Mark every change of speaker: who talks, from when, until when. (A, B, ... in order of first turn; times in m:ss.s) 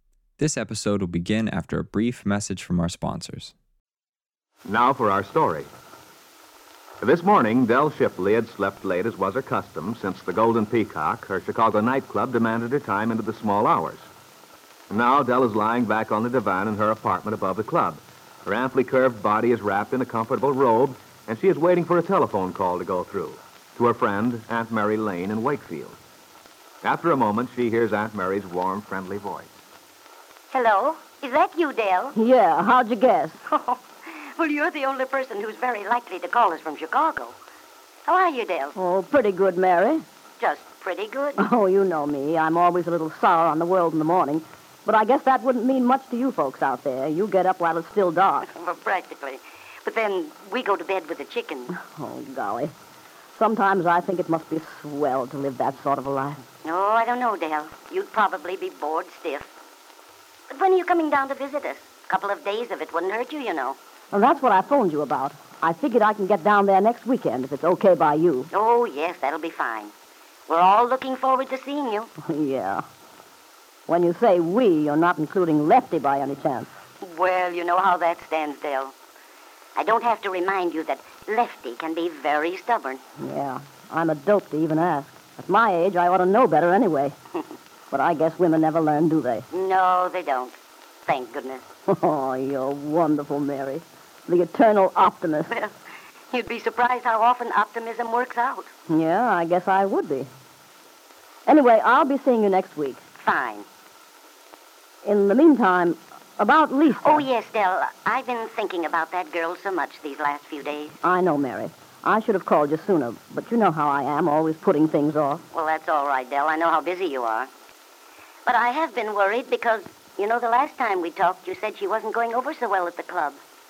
0:00.4-0:03.5 A
0:04.6-0:05.7 B
0:07.0-0:14.1 B
0:14.9-0:26.0 B
0:26.8-0:29.5 B
0:30.5-0:32.2 C
0:32.1-0:33.4 D
0:33.5-0:37.4 C
0:38.1-0:38.7 C
0:38.7-0:40.0 D
0:40.4-0:41.4 C
0:41.4-0:48.5 D
0:48.5-0:51.7 C
0:51.7-0:52.7 D
0:53.3-0:56.4 D
0:56.6-0:59.5 C
1:00.5-1:03.8 C
1:04.1-1:08.5 D
1:08.5-1:09.9 C
1:10.5-1:12.1 C
1:12.2-1:12.8 D
1:13.9-1:16.7 D
1:17.0-1:18.9 C
1:19.8-1:23.0 C
1:23.2-1:27.2 D
1:27.9-1:29.4 D
1:29.5-1:31.7 C
1:31.9-1:35.6 D
1:36.3-1:38.7 C
1:38.9-1:40.3 D
1:41.4-1:43.0 D
1:43.2-1:43.6 C
1:45.0-1:47.2 D
1:47.0-1:51.0 C
1:51.0-1:55.4 D
1:55.5-1:57.5 C
1:58.4-2:03.4 C